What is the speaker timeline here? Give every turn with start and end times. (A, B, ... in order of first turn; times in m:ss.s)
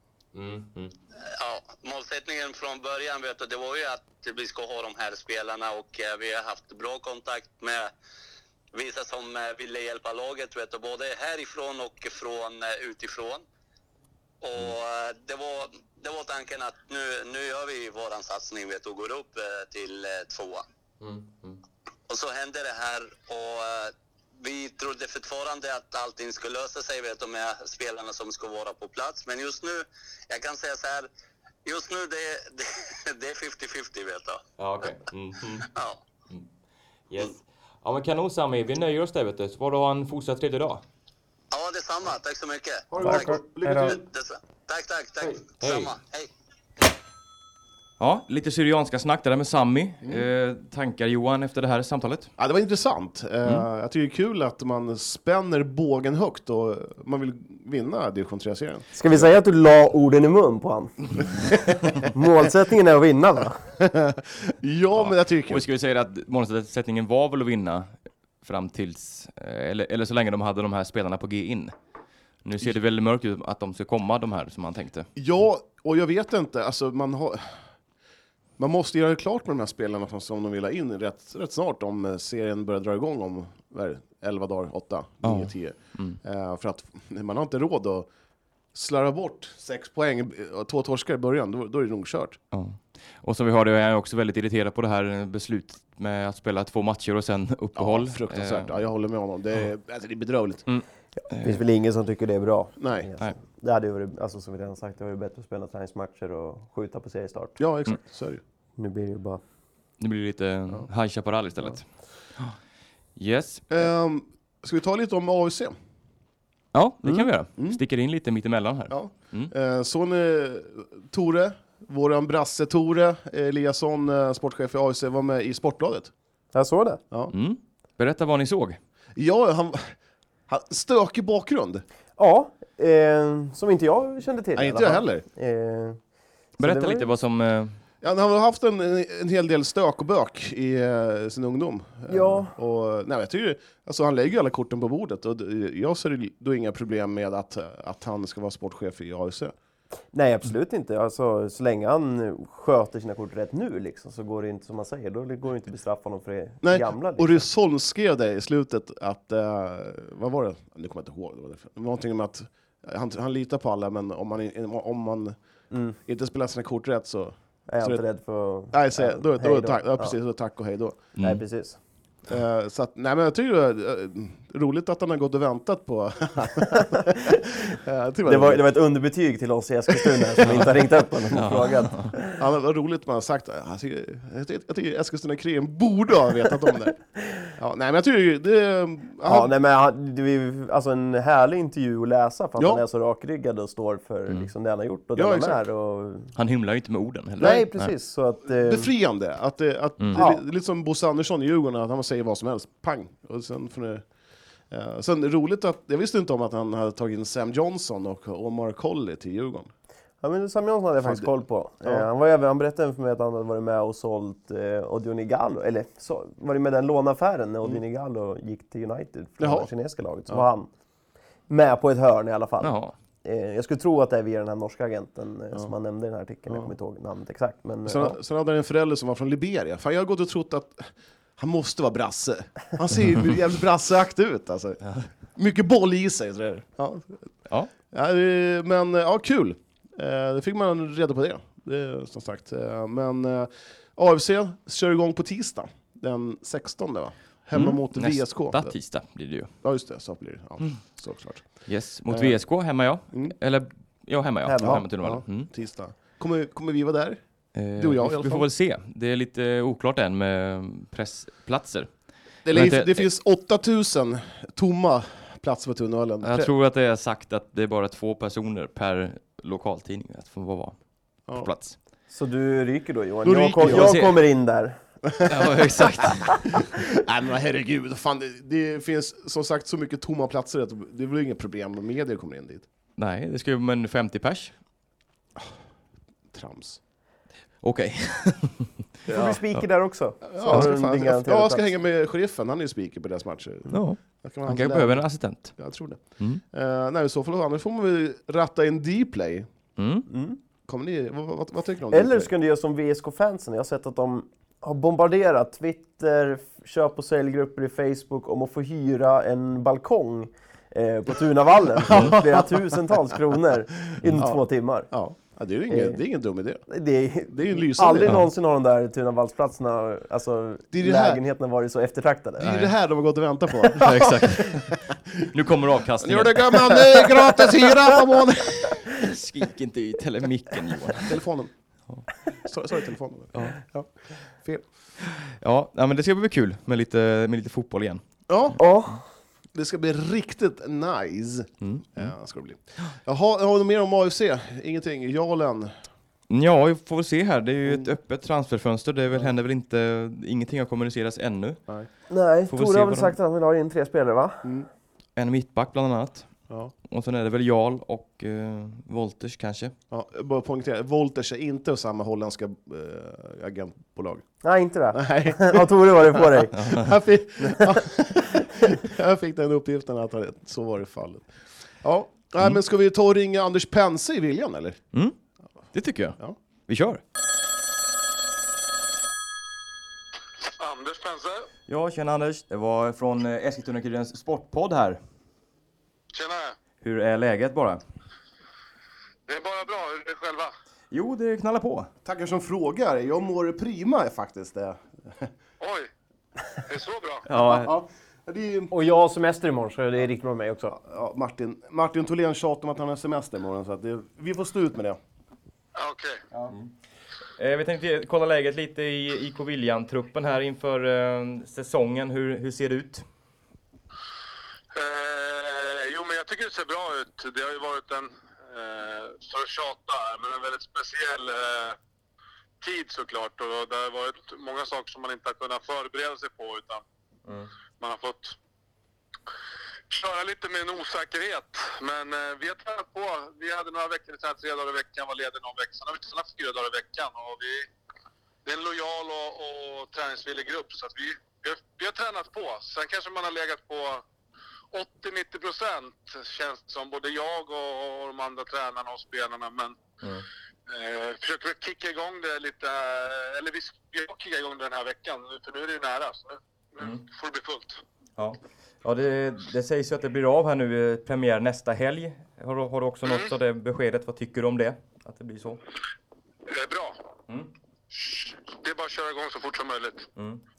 0:00.3-0:01.0 A
0:01.3-0:07.9 B
0:08.7-0:13.4 B
0:14.4-0:20.6 B
0:21.0-0:21.6 A
0:22.1-0:31.1 B
0:31.6-0:34.4 B
0:34.6-0:35.7 A
0:35.7-0:36.0 B
0:37.1-0:40.8 A
0:41.5-0:46.3 B
0:42.9-0:44.0 C
0:43.0-0:44.0 D
0:45.6-0:45.9 A
0:48.0-0:52.3 A
0:52.4-0:58.9 C
0:58.9-1:03.6 D
1:03.8-1:05.6 C
1:05.0-1:07.9 A
1:08.4-1:11.7 A
1:12.4-1:15.1 A
1:15.2-1:17.6 C
1:18.6-1:28.1 C
1:25.2-1:26.2 A
1:28.7-1:32.4 C
1:32.5-1:38.8 A
1:37.8-1:40.6 C
1:40.7-1:41.6 A
1:41.2-1:47.6 D
1:42.8-1:43.1 C
1:47.6-1:48.4 C
1:48.8-1:49.4 D
1:50.0-1:51.8 A
1:53.2-1:53.7 A
1:53.7-1:55.7 C
1:56.7-1:59.5 A
1:58.9-2:06.1 C
2:06.5-2:07.0 D
2:07.3-2:08.8 A
2:09.2-2:10.0 C
2:10.5-2:11.8 C
2:12.2-2:16.0 D
2:14.6-2:15.2 C
2:16.6-2:17.8 A
2:16.6-2:17.1 D
2:18.0-2:29.5 C
2:22.1-2:22.5 D
2:30.1-2:37.4 D
2:36.6-2:45.4 C
2:45.7-2:46.0 D
2:46.0-2:48.0 C
2:47.7-2:50.2 D
2:48.7-2:51.0 C
2:51.2-2:51.4 A
2:51.2-2:51.8 D
2:52.3-2:58.6 C
2:58.2-3:02.4 D
3:00.3-3:00.6 C
3:01.3-3:02.1 A
3:02.4-3:09.5 C
3:09.2-3:16.3 D
3:12.6-3:12.8 C
3:15.2-3:15.6 C
3:16.3-3:17.9 A
3:17.4-3:17.6 C
3:17.4-3:18.9 D
3:18.5-3:24.0 C
3:20.1-3:20.4 D
3:24.7-3:29.7 C
3:30.2-3:40.7 D
3:31.0-3:31.3 C
3:39.4-3:39.7 C
3:41.5-3:48.2 D
3:42.6-3:42.9 A
3:47.8-3:57.3 C
3:57.9-4:08.8 C
4:07.5-4:09.5 A
4:09.6-4:12.4 C
4:11.6-4:15.5 A
4:14.4-4:14.8 D
4:14.6-4:17.2 C
4:17.5-4:21.9 A
4:17.7-4:18.4 C
4:22.4-4:26.5 C
4:22.5-4:23.0 A
4:26.2-4:31.8 A
4:32.1-4:34.8 D
4:33.2-4:34.0 C
4:33.6-4:34.2 A
4:35.1-4:35.7 C
4:35.2-4:36.5 A
4:36.8-4:42.6 C
4:43.0-4:44.5 A
4:46.3-4:46.8 C
4:47.6-4:48.7 A
4:49.0-4:49.4 C
4:49.1-4:51.7 D
4:50.2-4:59.5 C
4:53.7-4:55.6 A
4:59.8-5:00.1 A
5:00.1-5:00.4 D
5:00.7-5:02.3 C
5:01.9-5:14.9 D
5:11.8-5:12.5 C
5:14.0-5:16.6 C
5:15.7-5:16.0 D
5:16.7-5:22.5 D
5:17.3-5:18.2 C
5:20.7-5:21.2 C
5:22.4-5:25.3 C
5:22.4-5:22.7 A
5:23.7-5:27.3 A
5:26.0-5:28.8 C
5:28.8-5:31.2 A
5:31.0-5:31.5 C
5:32.4-5:33.9 C
5:35.0-5:38.0 A
5:38.3-5:38.6 C
5:38.6-5:39.0 D
5:39.5-5:45.7 C
5:41.6-5:42.1 A
5:46.3-5:51.6 A
5:52.1-5:54.4 D
5:52.5-5:53.1 A
5:55.2-5:56.3 A
5:56.9-5:59.7 A
5:59.9-6:04.2 C
6:04.4-6:06.6 D
6:04.9-6:11.3 C
6:06.5-6:06.9 A
6:11.8-6:14.8 C
6:15.7-6:17.0 A
6:20.4-6:21.5 E
6:21.7-6:25.0 A
6:26.1-6:26.6 E
6:26.8-6:27.8 A
6:29.3-6:30.5 E
6:30.9-6:31.9 A
6:32.0-6:35.3 C
6:35.6-6:35.9 E
6:36.6-6:37.2 E
6:37.3-6:37.7 D
6:37.4-6:38.7 C
6:38.7-6:40.8 D
6:40.8-6:45.0 C
6:45.7-6:46.2 E
6:47.4-6:53.0 A
6:54.7-7:01.8 E
7:02.6-7:06.8 E
7:07.8-7:08.4 E
7:09.9-7:17.7 E
7:18.4-7:24.0 E
7:24.7-7:29.8 E
7:30.0-7:30.3 A
7:30.7-7:37.8 E
7:38.2-7:45.6 A
7:43.0-7:43.3 E
7:46.5-7:47.0 E
7:47.9-7:50.1 E
7:50.2-7:50.4 A